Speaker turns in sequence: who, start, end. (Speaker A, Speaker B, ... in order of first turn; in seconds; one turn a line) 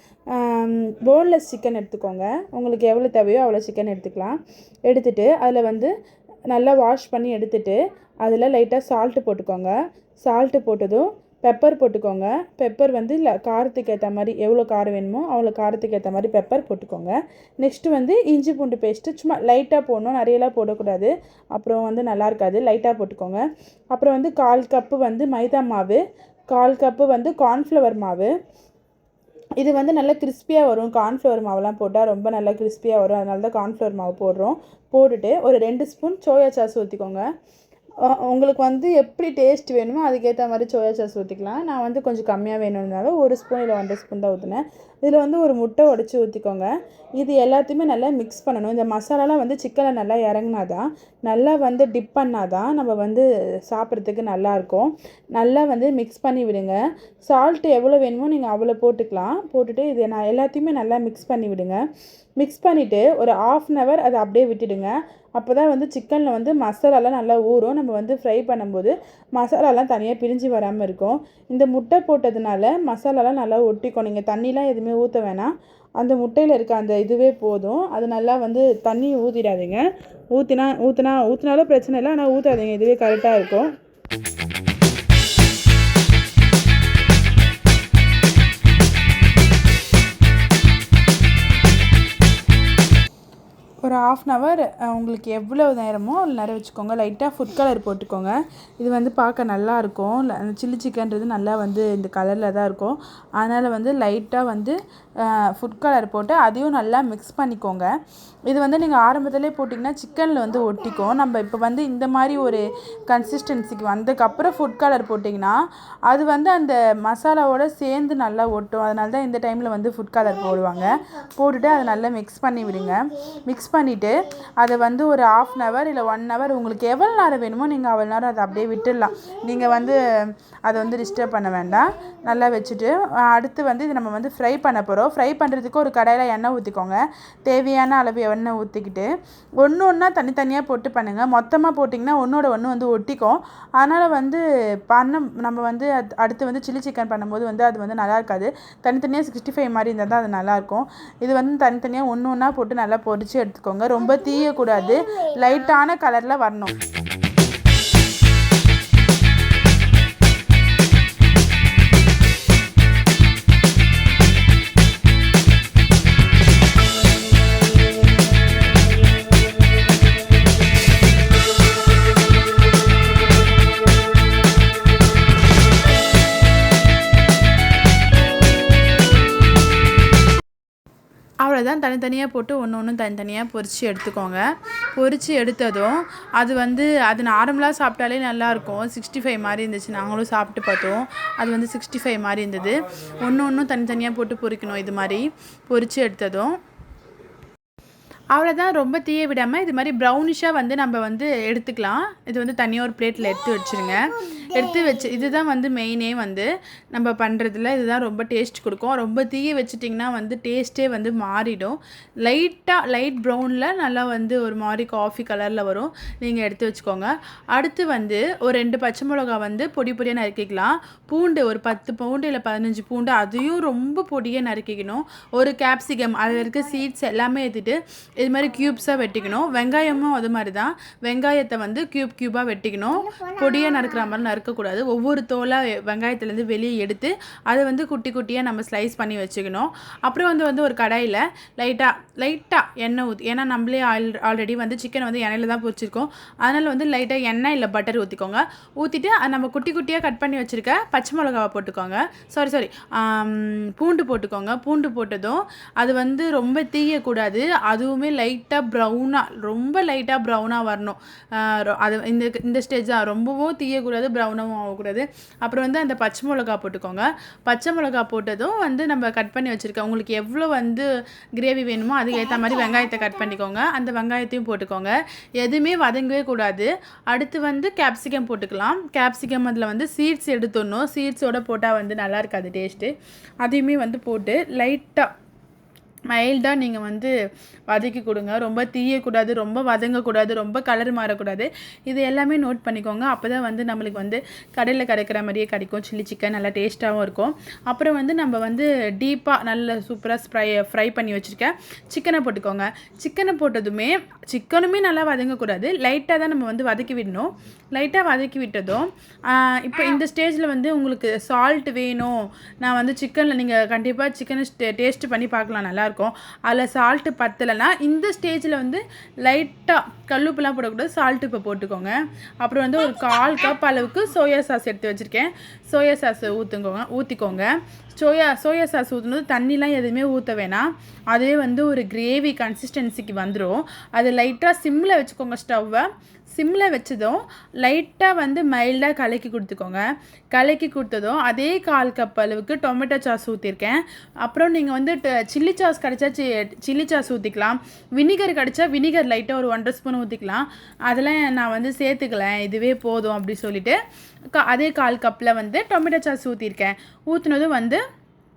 Speaker A: 0.3-5.9
Speaker A: 6.5-28.3
Speaker A: 29.6-37.3
Speaker A: 38.0-61.8
Speaker A: 62.4-83.7
Speaker A: 93.8-107.9
Speaker A: 108.5-156.7
Speaker A: 181.4-196.6
Speaker A: 198.3-285.1
Speaker A: 286.1-287.1
Speaker A: 287.7-353.8
Speaker A: 354.3-357.8